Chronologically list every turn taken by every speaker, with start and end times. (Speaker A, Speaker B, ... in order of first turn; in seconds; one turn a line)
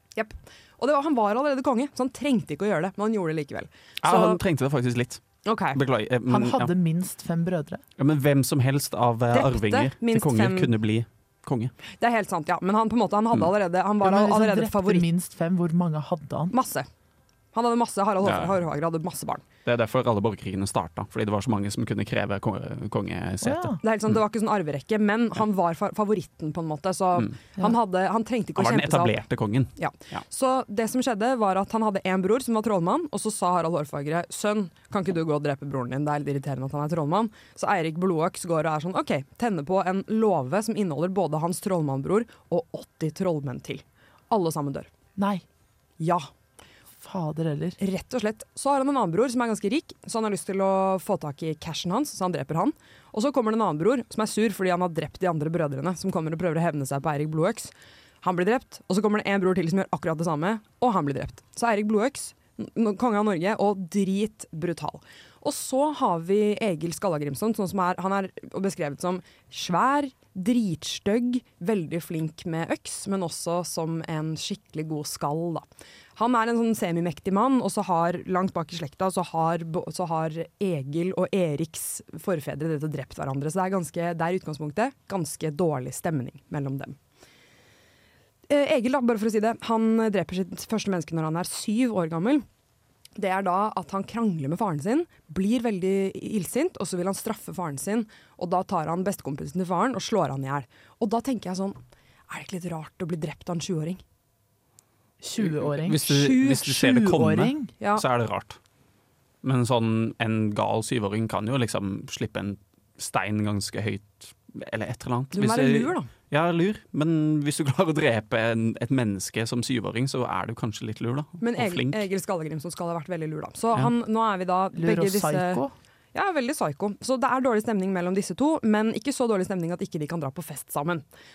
Speaker A: 0.1-4.4
Speaker B: 4.0-6.7
Speaker A: 5.4-5.8
Speaker C: 6.3-7.8
Speaker B: 8.0-11.7
Speaker A: 9.3-10.7
Speaker A: 12.0-15.1
Speaker C: 14.0-16.5
Speaker A: 16.5-16.9
Speaker A: 17.5-19.4
Speaker B: 18.2-18.6
Speaker B: 19.6-23.8
Speaker C: 23.4-23.8
Speaker A: 23.8-29.2
Speaker B: 28.6-30.2
Speaker A: 29.8-44.9
Speaker C: 45.2-45.4
Speaker A: 46.0-46.3
Speaker C: 47.0-47.8
Speaker A: 47.8-75.6
Speaker A: 76.2-87.0
Speaker A: 88.5-92.4
Speaker A: 93.2-101.8
Speaker A: 102.3-104.0
Speaker C: 105.2-107.7
Speaker B: 105.4-108.6
Speaker A: 106.1-106.4
Speaker A: 107.8-108.0
Speaker B: 109.4-122.0
Speaker A: 115.3-116.1
Speaker A: 121.4-125.6
Speaker C: 124.8-125.7
Speaker A: 126.1-131.0